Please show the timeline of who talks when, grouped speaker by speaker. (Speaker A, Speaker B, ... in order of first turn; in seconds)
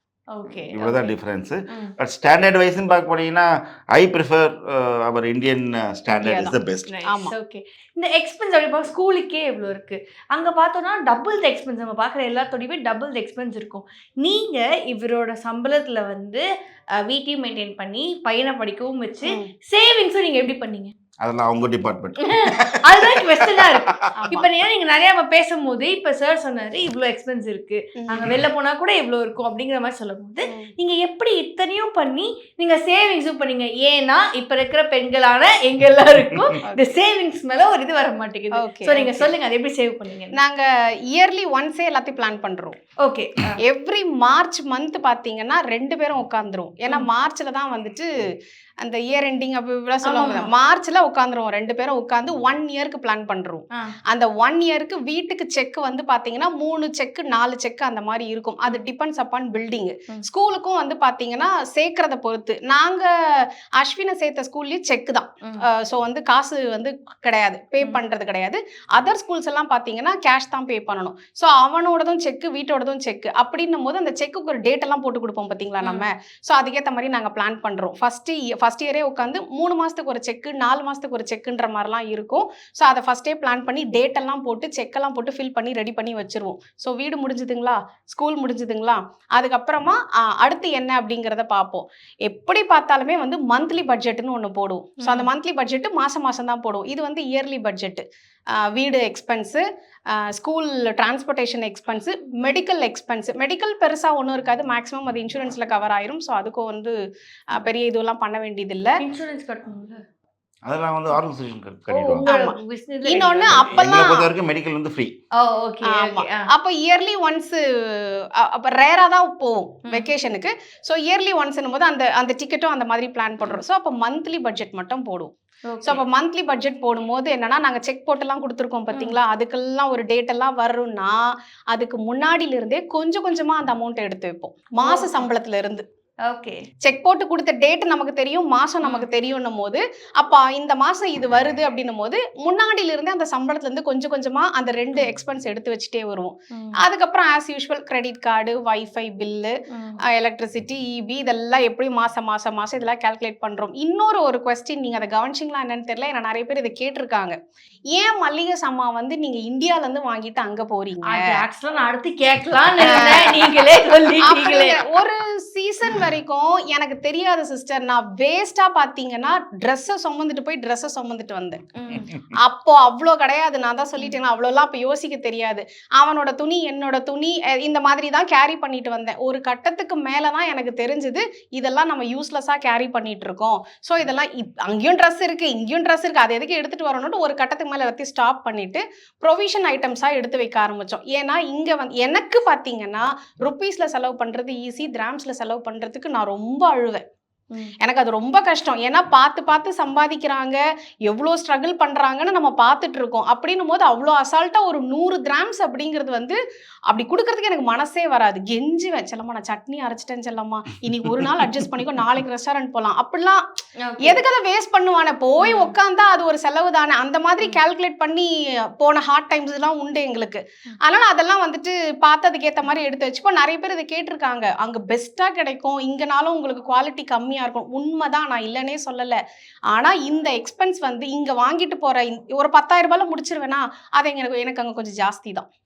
Speaker A: 0.3-1.1, 6.9-16.4, 17.0-20.9, 22.2-40.4, 43.0-43.6, 50.0-50.5, 75.8-76.1, 95.0-95.3, 109.0-110.0, 111.9-113.9, 115.4-116.5, 125.7-126.0, 128.9-129.2, 134.8-135.3, 136.3-136.6, 138.8-139.1, 149.7-150.0, 161.0-164.8, 171.8-172.1, 213.8-214.2, 215.4-215.8
Speaker B: 0.5-6.9, 21.2-23.9, 28.2-28.5, 36.1-36.5, 110.7-112.3, 113.5-115.1
Speaker C: 6.1-6.5, 7.1-7.3, 19.2-19.5, 24.2-24.5, 28.0-28.3, 30.5-30.7, 36.6-36.9, 38.6-39.3, 40.4-42.8, 43.6-48.1, 48.8-98.0, 98.5-107.0, 107.5-109.0, 112.2-114.2, 115.8-135.8, 136.8-149.6, 150.1-157.4, 157.9-161.3, 162.8-163.4, 164.2-171.6, 172.4-197.0, 197.8-206.4, 206.9-213.5, 214.1-229.2, 229.7-235.5